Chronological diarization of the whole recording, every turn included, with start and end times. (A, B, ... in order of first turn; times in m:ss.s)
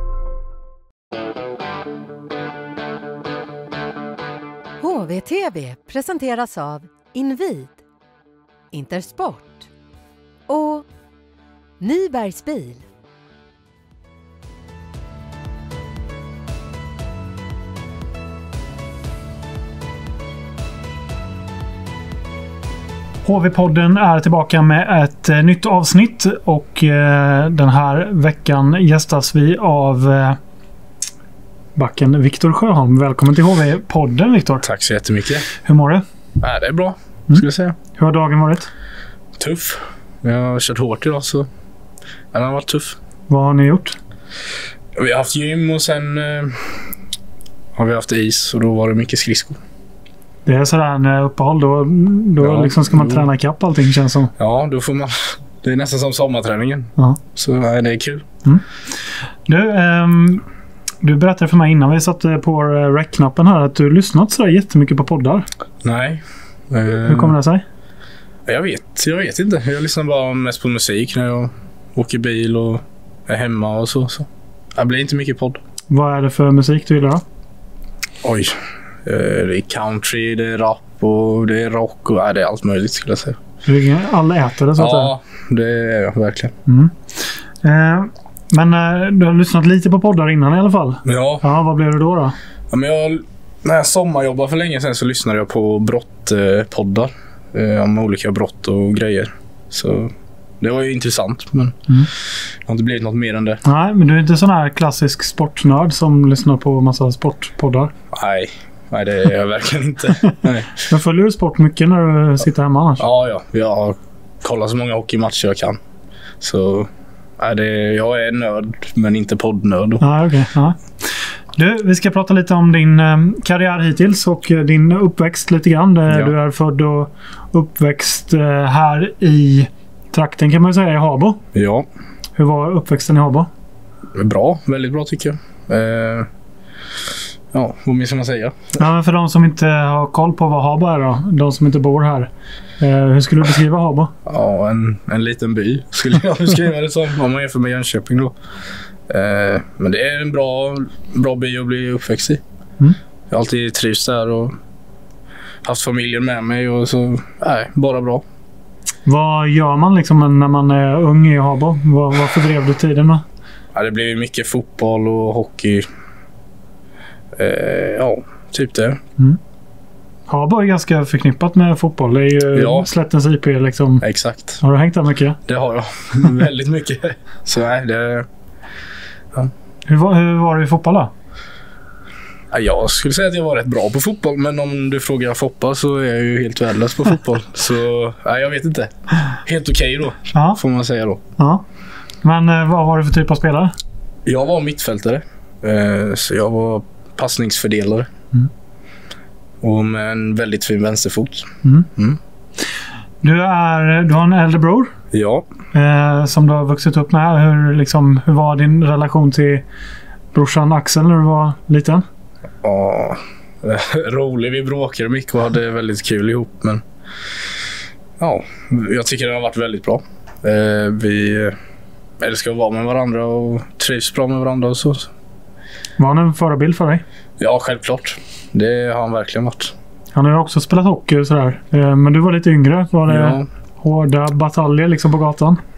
0:04.8-0:07.8 A
0:08.7-0:09.6 A
0:10.5-0:10.8 A
0:11.8-0:12.8 A
0:23.2-0:30.4 B
0:31.8-0:34.7 B
0:34.6-0:35.5 C
0:35.6-0:36.0 B
0:36.4-0:37.8 C
0:38.0-0:38.7 B
0:39.4-0:41.5 C
0:42.3-0:43.0 C
0:43.3-0:44.0 B
0:45.0-0:46.9 C
0:47.8-0:49.6 C
0:50.5-0:54.3 B
0:52.4-0:53.3 C
0:54.4-0:58.3 C
0:59.5-1:00.4 B
1:01.0-1:05.5 B
1:05.8-1:07.4 C
1:07.0-1:07.6 B
1:08.5-1:15.6 C
1:15.9-1:17.2 B
1:18.2-1:23.4 C
1:23.6-1:25.1 B
1:24.8-1:26.5 C
1:26.7-1:32.4 B
1:31.0-1:31.4 C
1:32.7-1:43.6 C
1:43.6-1:47.9 B
1:48.1-1:50.7 C
1:50.3-1:53.0 B
1:53.0-1:55.8 C
1:56.4-2:00.0 C
2:00.0-2:11.4 B
2:06.1-2:06.3 C
2:11.5-2:11.9 C
2:12.4-2:13.5 B
2:14.2-2:16.3 C
2:17.5-2:18.8 C
2:18.8-2:24.1 B
2:24.3-2:28.4 C
2:29.1-2:32.4 C
2:33.3-2:34.6 C
2:35.6-2:38.2 C
2:39.1-2:43.2 B
2:43.7-2:45.9 C
2:47.4-2:49.0 C
2:50.3-2:54.0 B
2:52.5-2:52.9 C
2:54.0-2:54.6 C
2:54.6-2:55.4 B
2:55.5-2:58.3 C
2:59.9-3:01.1 B
3:02.5-3:11.2 C
3:10.3-3:10.6 B
3:11.4-3:11.6 B
3:12.2-3:13.7 B
3:14.2-3:18.1 C
3:19.6-3:22.2 C
3:23.2-3:24.9 B
3:25.1-3:25.5 C
3:25.7-3:29.6 B
3:30.3-3:32.0 B
3:32.6-3:36.8 C
3:38.2-3:41.6 C
3:42.2-3:45.1 C
3:46.0-3:47.0 B
3:47.4-3:49.8 C
3:50.1-3:55.6 B
3:53.1-3:53.5 C